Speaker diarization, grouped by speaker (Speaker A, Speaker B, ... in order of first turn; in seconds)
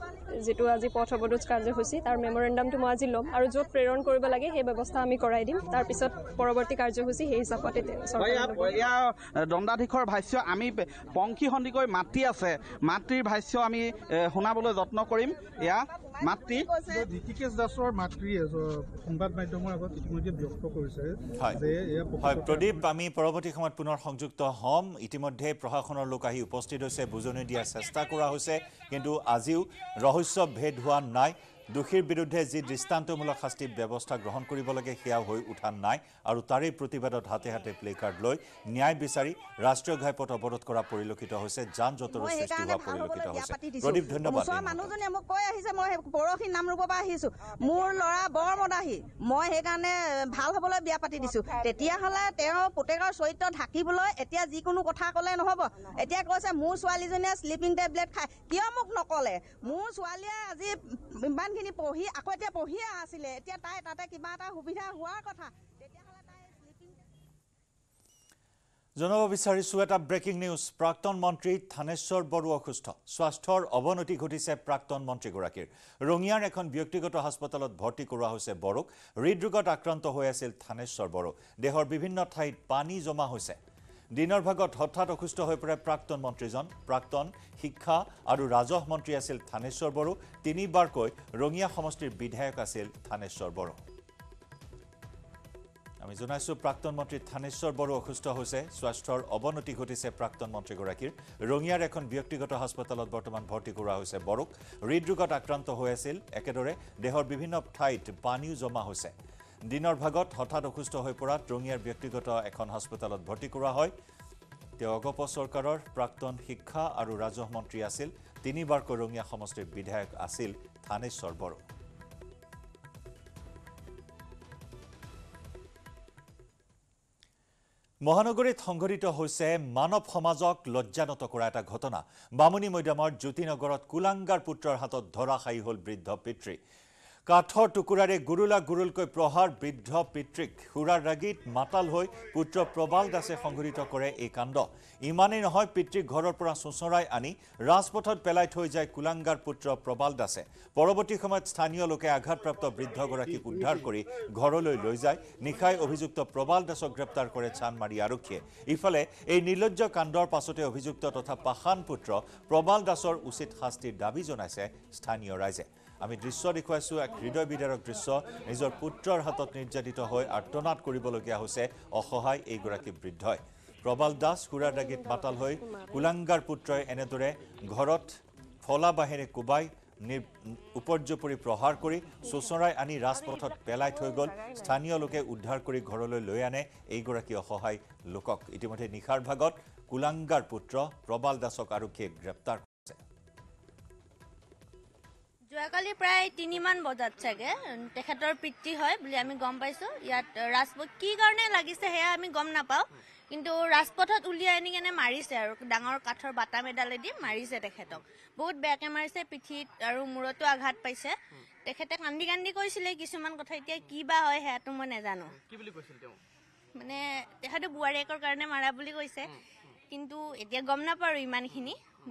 Speaker A: 0.4-8.8
Speaker B: 8.2-16.7, 215.5-216.2
Speaker C: 16.9-22.8
Speaker D: 22.2-45.0, 69.0-83.6, 84.1-93.8, 96.0-109.1, 109.7-113.9, 114.8-121.6, 128.1-136.6, 137.3-193.0
Speaker E: 42.1-60.7, 61.3-67.0
Speaker F: 195.5-211.1, 211.7-215.3, 216.8-219.3, 219.9-221.8